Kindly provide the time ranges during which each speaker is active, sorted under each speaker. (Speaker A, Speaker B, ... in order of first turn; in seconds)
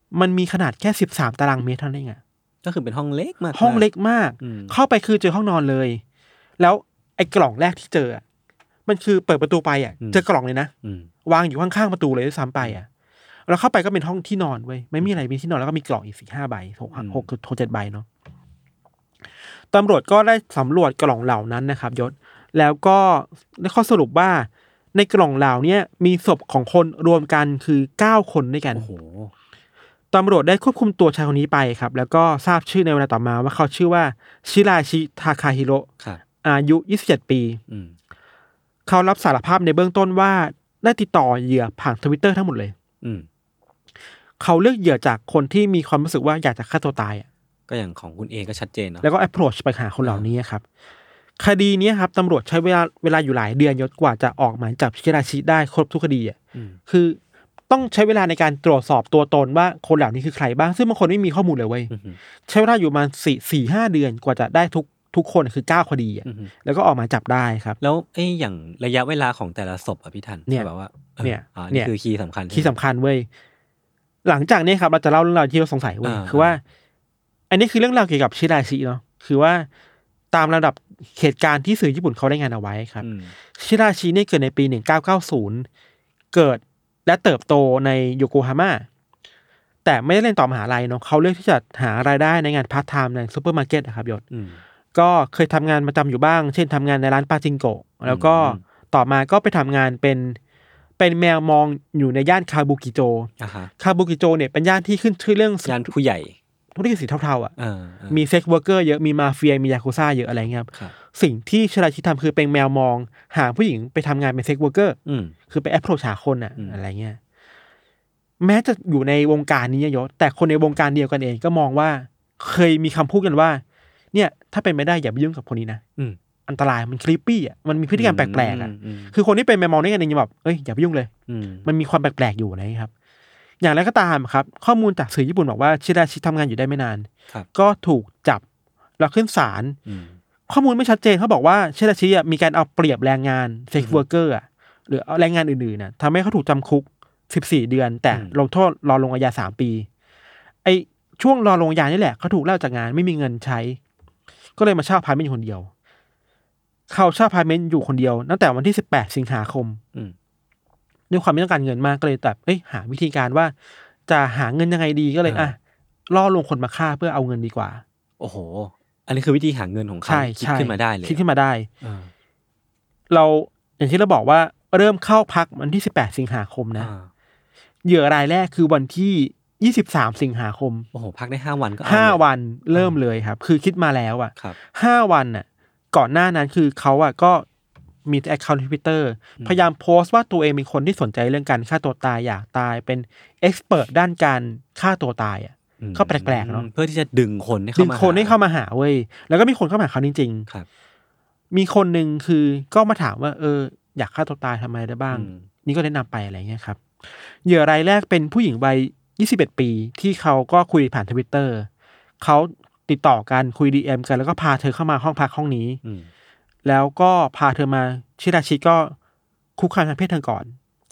Speaker A: 0.1-2.2, 3.5-6.0, 6.6-8.2, 8.9-10.7, 11.2-12.9, 13.5-18.1, 19.7-28.9, 30.1-35.9, 36.4-37.6, 38.9-42.7, 44.4-47.3, 49.0-50.6, 51.4-56.4, 56.9-57.2, 57.7-61.9, 62.5-67.8, 71.2-71.9, 72.5-73.3, 74.2-76.6, 77.5-79.7, 80.3-85.7, 86.3-88.9, 89.8-94.2, 94.9-100.4, 101.0-105.9, 106.8-107.5, 108.1-115.0, 115.5-117.2, 118.4-125.8, 126.5-131.1, 131.7-132.9, 133.6-138.4, 139.0-139.8, 140.5-149.9, 150.6-153.8, 154.6-155.7, 156.9-159.8, 161.1-163.5, 164.1-165.6, 166.1-167.8, 170.1-171.7, 173.1-176.9, 177.8-180.9, 181.8-187.5, 188.1-196.7, 197.8-200.5, 201.5-211.7, 212.2-215.8, 216.7-218.9, 219.6-220.6
Speaker B: 2.6-3.9, 4.4-4.7, 10.8-11.1, 16.9-17.3, 28.7-29.3, 37.7-38.0, 43.0-43.3, 47.7-49.1, 50.0-50.3, 56.5-56.8, 61.9-62.2, 66.2-66.5, 67.8-72.8, 76.0-76.6, 83.0-83.3, 94.3-94.6, 98.1-98.6, 103.4-103.7, 105.7-106.4, 107.6-108.2, 115.1-115.3, 127.9-129.1, 131.3-131.7, 139.9-140.2, 143.8-144.0, 165.2-165.5, 168.2-171.2, 171.8-172.1, 176.8-177.1, 180.9-182.2, 189.4-189.6, 195.8-198.4, 205.1-205.5, 215.8-216.1